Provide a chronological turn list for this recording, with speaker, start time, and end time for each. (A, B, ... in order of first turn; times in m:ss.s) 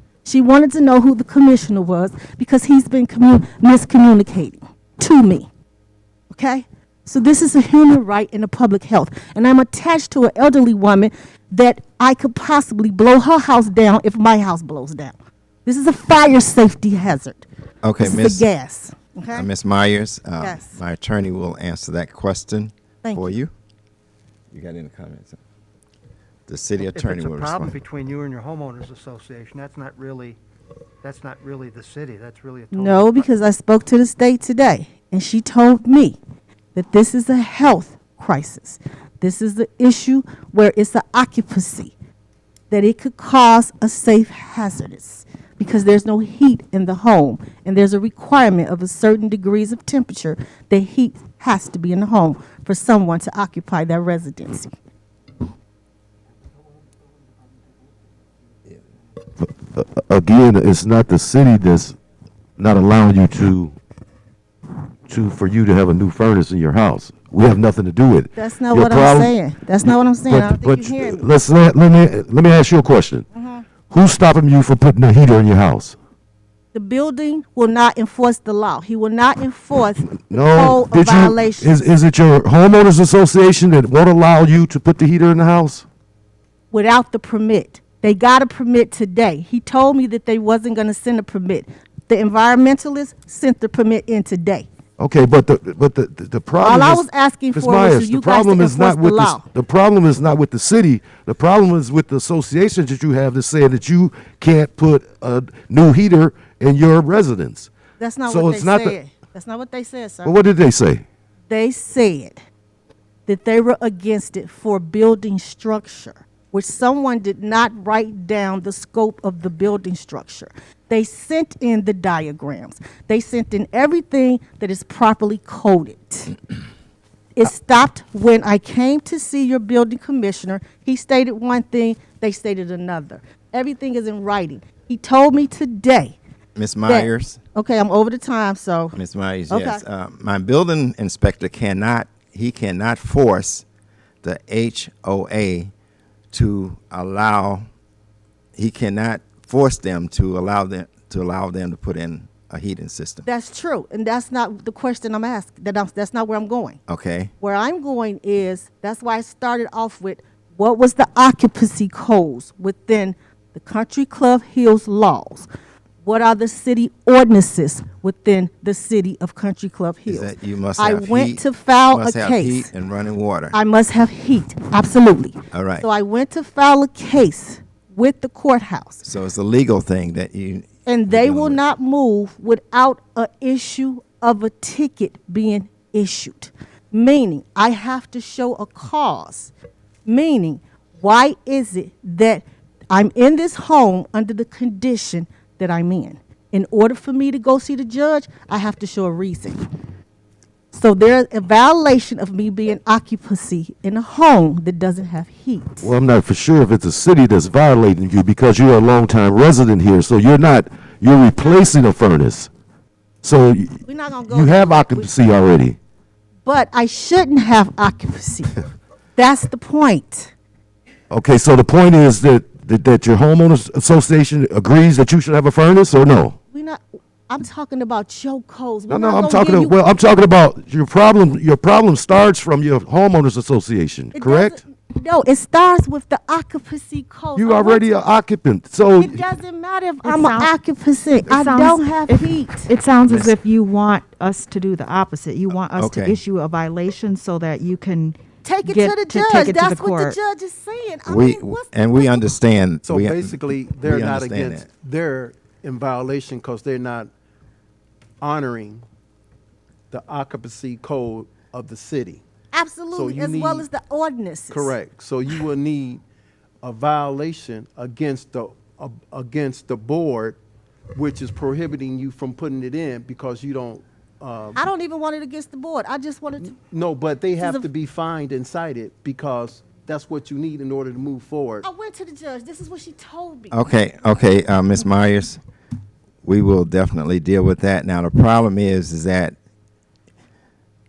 0:00.2-0:05.5 A
0:06.3-0:17.5 A
0:17.8-0:18.5 B
0:18.0-0:19.5 A
0:19.3-0:23.5 B
0:20.4-0:20.7 A
0:23.0-0:23.4 A
0:24.5-0:25.4 B
0:26.5-0:27.7 B
0:26.8-0:30.4 C
0:31.0-0:33.3 C
0:32.7-0:36.2 A
0:36.8-0:42.0 A
0:42.7-0:54.7 A
0:59.4-1:02.0 D
1:02.6-1:03.8 D
1:05.1-1:09.3 D
1:08.4-1:11.3 A
1:10.3-1:13.2 D
1:13.3-1:13.7 A
1:13.9-1:16.0 D
1:16.7-1:21.9 A
1:20.2-1:25.9 D
1:26.7-1:34.7 A
1:35.0-1:47.7 D
1:36.6-1:39.5 A
1:48.0-1:50.4 A
1:48.3-1:49.0 D
1:50.2-1:51.0 D
1:51.5-1:52.4 A
1:53.3-2:06.4 A
2:07.4-2:16.2 A
2:16.6-2:17.4 B
2:16.9-2:19.0 A
2:18.9-2:23.7 B
2:19.5-2:19.8 A
2:24.2-2:25.7 B
2:26.3-2:27.7 B
2:28.6-2:33.3 B
2:33.2-2:36.8 A
2:36.9-2:37.3 B
2:37.4-2:45.5 A
2:46.0-2:52.7 A
2:50.1-2:53.6 B
2:53.5-2:59.0 A
2:55.5-2:55.8 B
2:59.0-3:01.6 B
3:00.9-3:09.5 A
3:10.1-3:19.6 A
3:20.7-3:25.9 A
3:25.8-3:32.5 D
3:33.2-3:35.8 D
3:33.9-3:35.1 A
3:36.4-3:38.6 A
3:39.2-3:40.3 A
3:41.1-3:46.4 D
3:46.5-3:49.8 A
3:48.9-3:54.6 D
3:54.1-3:57.9 A
3:57.4-3:59.2 D
3:59.0-4:02.7 A
4:00.0-4:00.5 E
4:01.2-4:10.2 E
4:03.1-4:03.4 B
4:05.8-4:06.2 B
4:08.4-4:12.2 A
4:11.1-4:14.7 B
4:12.9-4:17.1 F
4:18.2-4:18.8 F
4:19.9-4:22.2 F
4:22.5-4:24.7 A
4:22.9-4:23.7 F
4:24.5-4:26.0 F
4:26.6-4:30.4 F
4:30.9-4:34.6 F
4:34.6-4:36.6 A
4:36.6-4:41.7 F
4:37.4-4:37.7 A
4:41.6-4:43.6 A
4:43.5-4:45.4 B
4:46.2-4:49.4 B